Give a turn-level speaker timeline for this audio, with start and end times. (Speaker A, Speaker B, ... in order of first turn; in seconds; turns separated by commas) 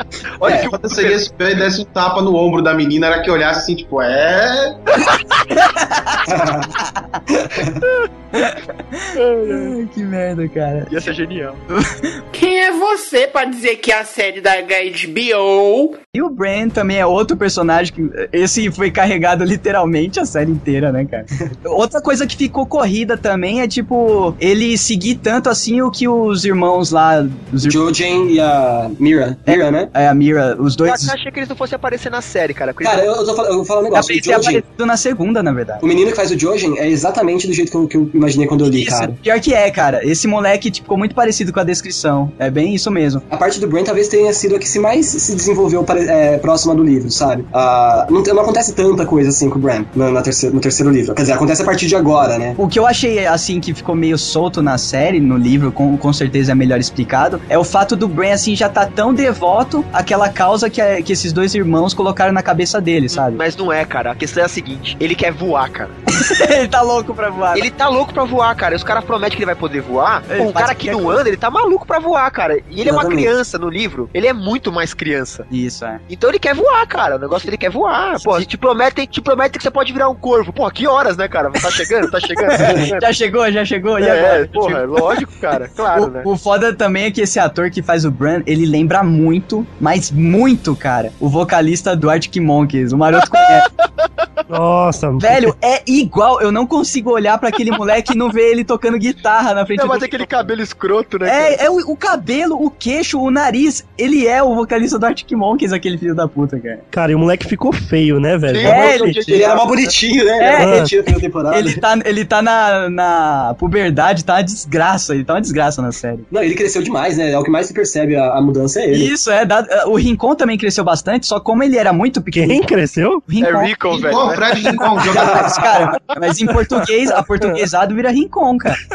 Speaker A: 0.4-1.2, Speaker B: 0.4-0.7, Speaker C: 0.6-5.0, Speaker D: 5.5-7.2, Speaker B: 6.3-6.7, Speaker B: 7.3-7.8, Speaker D: 8.3-10.9, Speaker A: 9.2-9.6, Speaker A: 10.9-11.6, Speaker D: 11.7-12.2, Speaker E: 12.3-16.0, Speaker D: 16.1-27.8, Speaker B: 27.6-29.9, Speaker D: 29.4-31.1, Speaker A: 30.8-33.1, Speaker B: 32.8-34.6, Speaker D: 33.9-35.8, Speaker B: 35.8-39.1, Speaker D: 38.6-43.2, Speaker B: 43.3-52.6, Speaker D: 52.6-63.4, Speaker A: 63.1-66.0, Speaker D: 66.1-67.7, Speaker A: 67.5-75.5, Speaker D: 70.3-71.2, Speaker B: 72.8-73.3, Speaker D: 75.5-76.0, Speaker A: 76.1-83.1, Speaker D: 78.2-78.5, Speaker D: 82.5-85.2, Speaker B: 82.5-82.9, Speaker A: 84.0-86.3, Speaker D: 85.9-93.7, Speaker A: 93.3-94.1, Speaker F: 94.5-95.5, Speaker D: 95.2-100.5, Speaker A: 99.7-101.6, Speaker D: 101.2-106.8, Speaker F: 106.9-109.2, Speaker A: 108.5-109.9, Speaker D: 108.6-109.4, Speaker B: 109.2-111.8, Speaker D: 110.4-116.3, Speaker F: 110.5-110.9, Speaker B: 116.3-119.1, Speaker D: 118.9-122.6, Speaker F: 122.3-123.2, Speaker D: 123.3-123.7, Speaker A: 123.4-124.9, Speaker C: 123.9-125.6, Speaker B: 125.0-125.9, Speaker D: 125.1-128.8